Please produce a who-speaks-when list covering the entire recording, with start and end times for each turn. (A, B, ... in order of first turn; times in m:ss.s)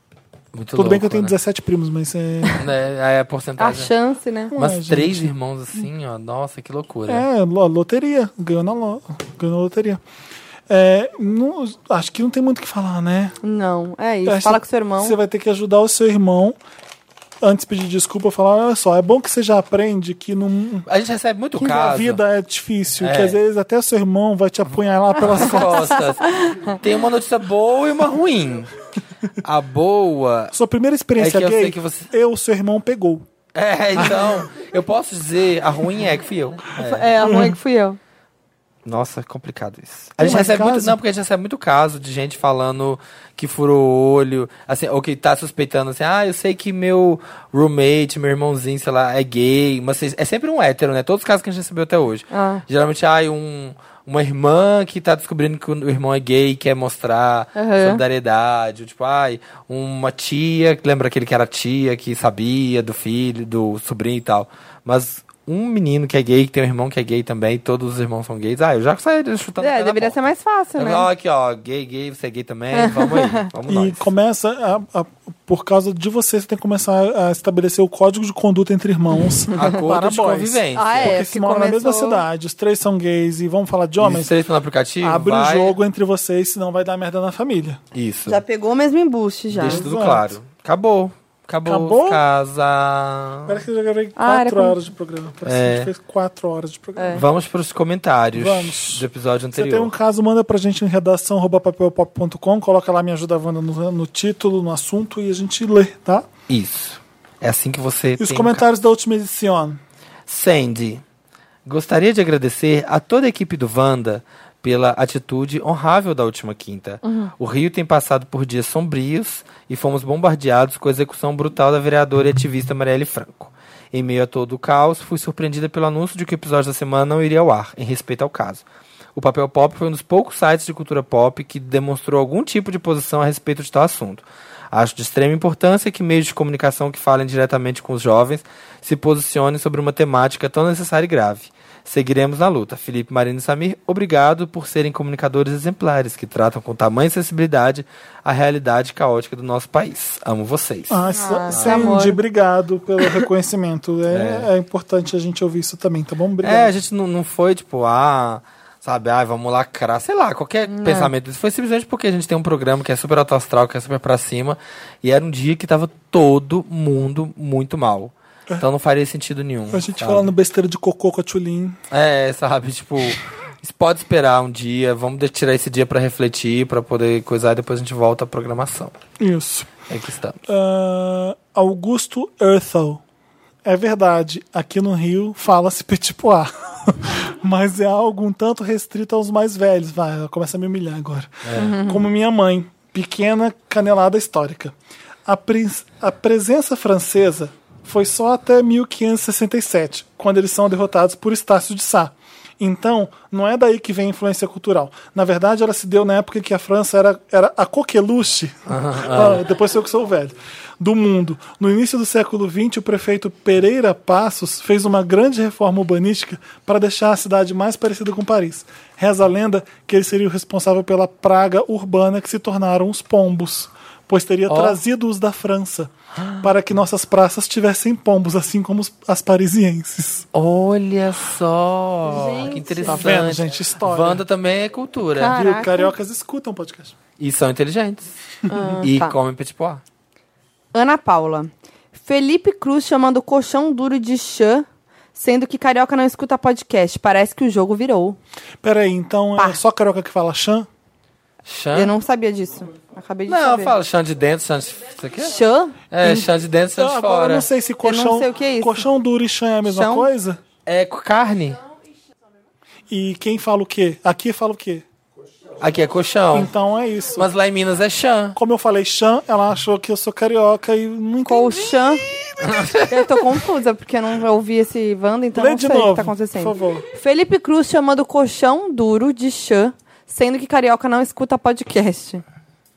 0:00.5-0:01.4 A
0:00.7-0:02.6 B
0:02.6-0:03.9 A
0:03.6-0:04.5 C
0:04.5-0:05.3 B
0:04.6-0:07.2 A
0:07.1-0:10.0 B
0:10.7-0:13.4 B
0:13.4-0:15.2 C
0:14.2-0:16.6 B
0:17.4-0:20.9 B
0:20.9-0:22.2 A
0:21.6-0:25.9 B
0:23.0-0:23.4 A
0:25.2-0:28.7 A
0:26.4-0:26.7 C
0:29.4-0:30.5 A
0:30.5-0:33.2 B
0:31.2-0:32.1 A
0:33.5-0:37.1 A
0:34.0-0:34.4 B
0:36.8-0:38.0 C
0:37.2-0:37.5 B
0:38.8-1:10.2 A
0:40.2-0:41.0 B
0:52.3-0:52.6 C
0:57.6-0:58.0 C
1:09.6-1:11.1 C
1:10.8-1:14.0 A
1:12.7-1:13.4 C
1:13.7-1:24.3 B
1:19.5-1:21.2 A
1:20.7-1:22.2 C
1:24.0-1:25.7 A
1:25.0-1:27.8 B
1:27.9-1:28.4 A
1:28.2-1:29.8 C
1:29.5-1:33.6 A
1:29.6-1:30.4 B
1:31.6-1:32.2 B
1:33.4-1:37.2 B
1:34.2-1:34.8 C
1:35.4-1:35.9 A
1:37.0-1:37.2 C
1:37.1-1:39.9 A
1:38.3-1:46.3 B
1:46.5-1:48.6 A
1:48.2-1:49.8 B
1:50.3-1:51.0 A
1:51.6-2:08.6 A
1:57.0-1:57.3 C
2:09.1-2:32.0 A
2:30.9-2:36.7 B
2:31.1-2:32.2 C
2:34.1-2:34.5 A
2:36.4-2:50.3 A
2:40.7-2:41.1 C
2:49.7-2:51.8 B
2:51.9-2:59.0 A
2:59.2-2:59.7 B
2:59.9-3:00.4 A
3:00.5-3:03.0 B
3:03.6-3:50.2 B
3:11.4-3:11.8 A
3:11.6-3:12.0 C
3:28.7-3:29.4 A
3:44.5-3:44.8 A
3:46.2-3:46.5 A
3:50.3-3:55.4 A
3:52.1-3:53.1 C
3:52.9-3:54.2 B
3:55.2-3:55.9 C
3:55.2-3:57.0 B
3:57.2-3:58.1 A
3:58.5-3:59.1 C
3:58.8-3:59.8 A
4:00.7-4:08.2 C
4:08.6-4:10.7 B
4:11.5-4:11.9 A
4:11.7-4:13.8 C
4:13.3-4:15.4 A
4:15.2-4:15.8 C
4:15.9-4:17.5 A
4:16.0-4:20.4 B
4:17.8-4:18.8 C
4:19.6-4:20.1 C
4:20.6-4:21.6 A
4:22.9-4:24.8 B
4:25.6-4:26.5 A
4:26.3-4:27.3 B
4:27.2-4:28.4 A
4:28.3-4:31.9 B
4:31.2-4:32.0 C
4:32.4-4:33.0 A
4:32.9-4:42.2 C
4:35.3-4:36.8 B